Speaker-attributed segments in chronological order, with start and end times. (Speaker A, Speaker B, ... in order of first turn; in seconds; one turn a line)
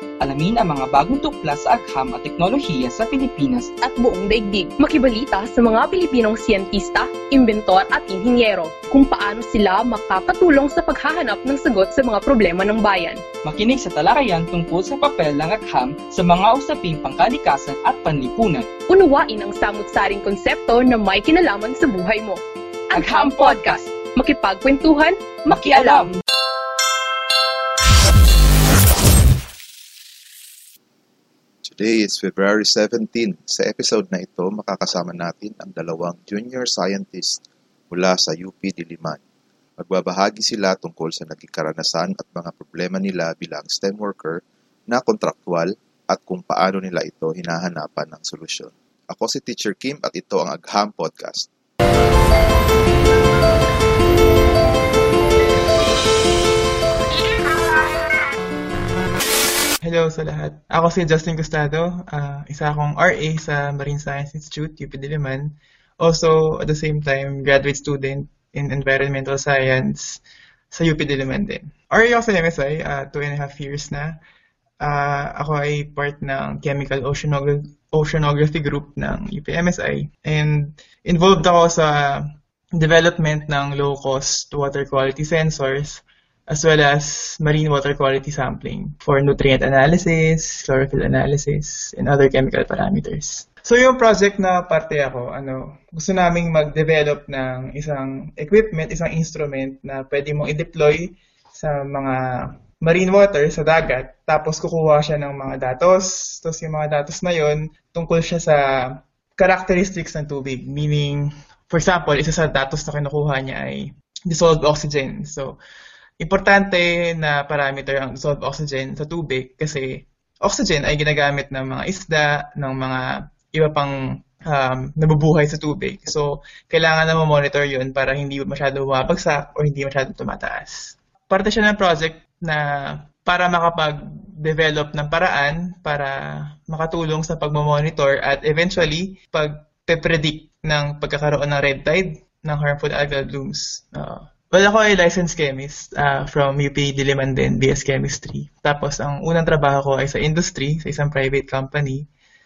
Speaker A: 0.2-3.7
Speaker B: 3.8-13.2
Speaker A: 13.4-18.7
Speaker B: 18.9-22.4
Speaker A: 22.9-23.8
Speaker B: 22.9-26.1
Speaker A: 25.5-26.2
Speaker C: 31.6-39.2
Speaker C: 39.8-51.5
Speaker D: 59.8-74.2
Speaker D: 74.8-115.6
Speaker D: 116.2-152.1